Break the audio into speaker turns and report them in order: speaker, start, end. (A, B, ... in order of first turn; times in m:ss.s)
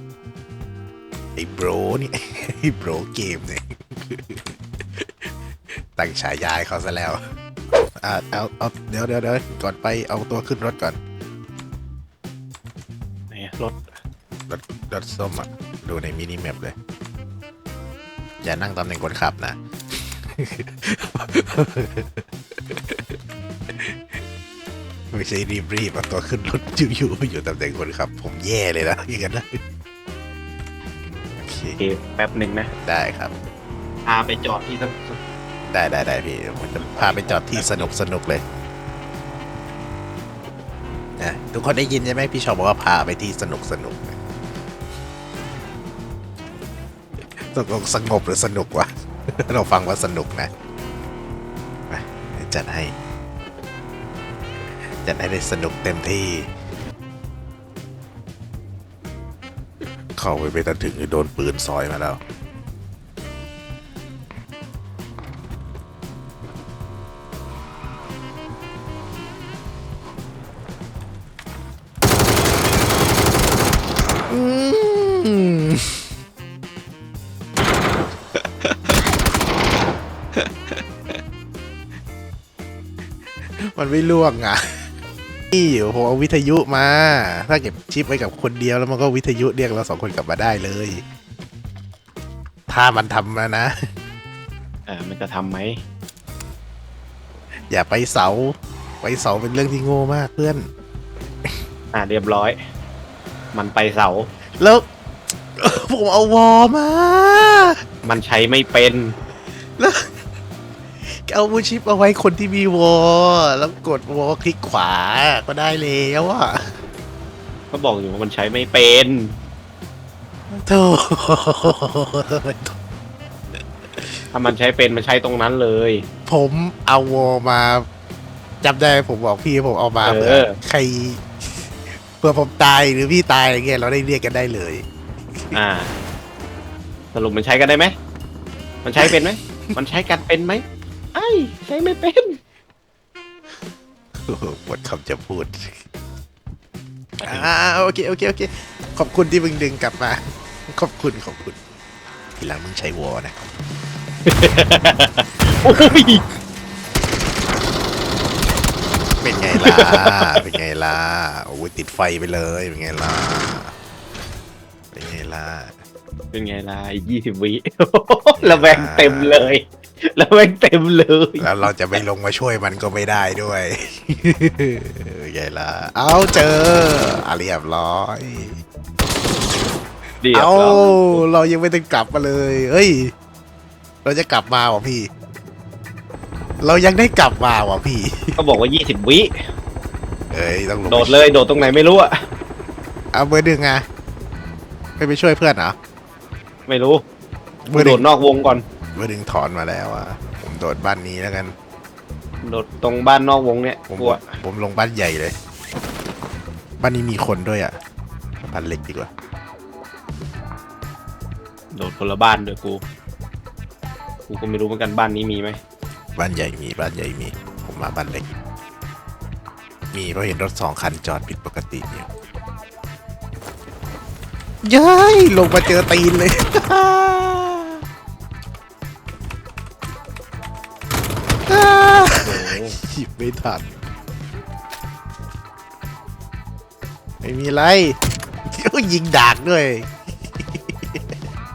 0:01.4-0:11.0 A
0:13.3-0:13.9 B
0:14.5-0:16.7 A
0:18.4-0:23.2 A
0:23.7-0:24.2 A
0:25.1-0:29.6 A
0:31.4-0:31.8 A
0:31.8-0:32.7 B
0:32.8-0:33.3 A
0:34.0-0:35.2 B
0:35.6-0:38.4 A
0:36.8-0:37.9 B
0:41.2-0:44.2 A
0:47.3-0:50.5 A
0:51.9-0:52.9 A
0:54.9-0:56.5 A
1:00.2-1:02.2 A
1:14.3-1:16.0 A
1:18.3-1:19.0 A
1:20.4-1:21.2 A
1:23.6-1:24.9 A
1:25.5-1:31.0 A
1:32.7-1:33.7 A
1:34.9-1:35.8 B
1:37.7-1:40.7 A
1:41.9-1:42.6 B
1:43.5-1:44.3 B
1:44.6-1:44.8 A
1:45.6-1:47.8 A
1:48.0-1:49.1 B
1:49.8-1:50.2 A
1:51.0-1:56.8 A
1:57.7-1:59.3 B
2:00.6-2:02.8 A
2:04.3-2:06.0 B
2:06.2-2:07.8 A
2:08.6-2:14.8 A
2:10.0-2:10.5 B
2:15.5-2:16.0 B
2:17.1-2:17.9 B
2:18.8-2:20.6 B
2:21.1-2:22.4 B
2:24.2-2:25.8 A
2:27.2-2:31.6 A
2:27.2-2:27.5 B
2:32.4-2:33.5 A
2:34.2-2:36.2 B
2:35.6-2:36.2 A
2:39.2-2:43.7 A
2:39.6-2:40.1 B
2:44.9-2:45.8 A
2:46.3-2:51.5 B
2:48.4-2:49.6 A
2:51.4-2:58.6 A
3:00.2-3:01.3 B
3:00.3-3:03.1 A
3:04.0-3:05.1 A
3:06.6-3:08.4 A
3:08.4-3:09.5 B
3:10.3-3:11.2 A
3:10.8-3:12.1 B
3:13.1-3:13.8 A
3:15.0-3:15.8 A
3:16.7-3:17.0 B
3:17.6-3:18.0 A
3:17.7-3:18.6 B
3:19.0-3:21.5 A
3:22.4-3:24.4 B
3:23.9-3:25.4 A
3:26.8-3:27.8 A
3:28.4-3:29.1 A
3:31.7-3:32.8 B
3:34.3-3:35.6 B
3:36.2-3:38.3 A
3:39.9-3:42.1 A
3:44.6-3:47.8 A
3:51.5-3:53.7 A
3:52.2-3:52.8 B
3:57.2-3:58.0 A
3:58.5-4:01.2 A